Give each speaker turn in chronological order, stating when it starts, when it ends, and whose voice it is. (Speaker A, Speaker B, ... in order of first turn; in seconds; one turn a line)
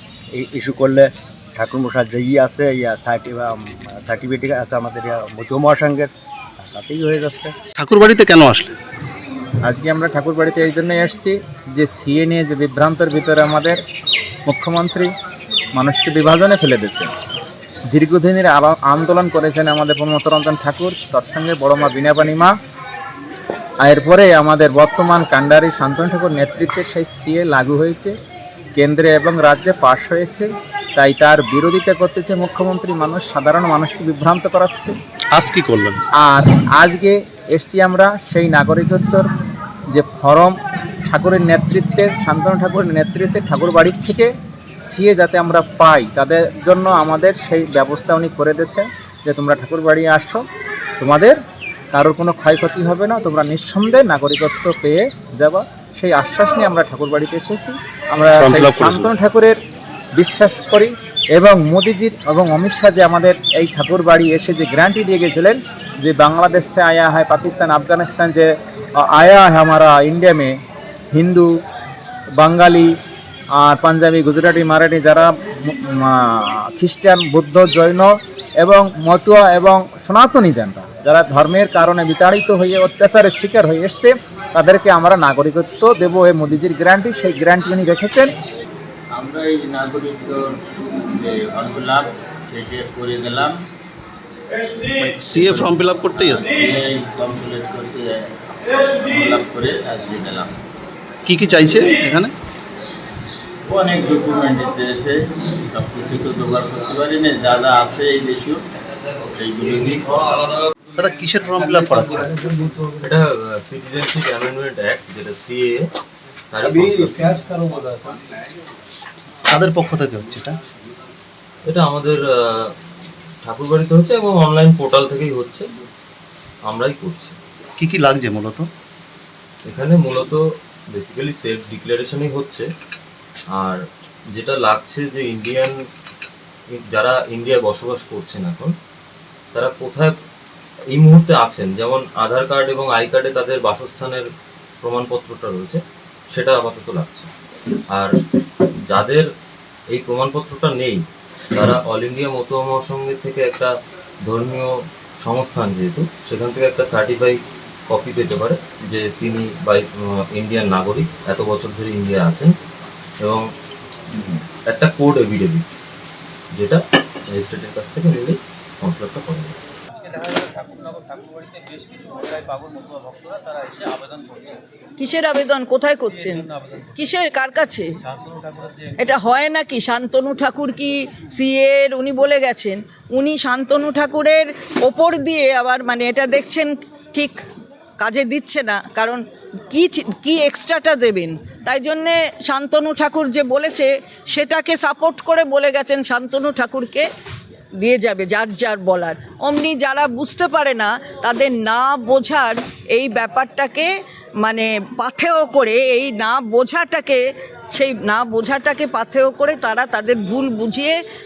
Speaker A: 0.3-7.5
Speaker B: 7.8-8.8
Speaker C: 9.6-13.8
Speaker C: 14.4-15.1
Speaker C: 15.7-17.1
Speaker C: 17.9-22.5
Speaker C: 23.8-28.1
Speaker C: 28.8-35.0
Speaker B: 35.3-36.0
Speaker C: 36.2-39.3
Speaker C: 39.9-44.3
Speaker C: 44.8-50.4
Speaker C: 51.0-51.4
Speaker C: 51.9-59.6
Speaker B: 58.4-59.1
Speaker C: 60.2-70.6
Speaker C: 71.1-71.5
Speaker C: 72.4-72.9
Speaker C: 73.6-88.3
Speaker D: 89.1-93.6
Speaker B: 95.0-96.6
Speaker D: 95.2-100.5
Speaker B: 101.2-102.3
Speaker D: 103.7-108.6
Speaker D: 109.3-110.4
Speaker E: 109.8-110.5
Speaker B: 111.0-112.5
Speaker E: 111.9-115.9
Speaker E: 116.5-117.7
Speaker B: 119.5-120.6
Speaker E: 121.7-122.7
Speaker E: 123.4-125.7
Speaker E: 126.7-127.4
Speaker B: 127.8-128.7
Speaker E: 129.7-130.4
Speaker E: 130.9-132.7
Speaker E: 134.3-135.7
Speaker E: 136.7-138.7
Speaker E: 139.5-140.1
Speaker E: 140.9-144.2
Speaker E: 144.8-145.8
Speaker E: 146.3-147.3
Speaker E: 148.9-149.2
Speaker E: 149.9-151.0
Speaker E: 151.5-153.7
Speaker E: 154.2-157.4
Speaker E: 157.9-162.6
Speaker E: 164.1-165.6
Speaker E: 166.5-169.6
Speaker F: 169.9-174.6
Speaker G: 175.0-177.9
Speaker F: 178.1-178.9
Speaker G: 179.0-187.4
Speaker G: 188.0-197.1
Speaker G: 197.8-203.9
Speaker G: 204.4-211.0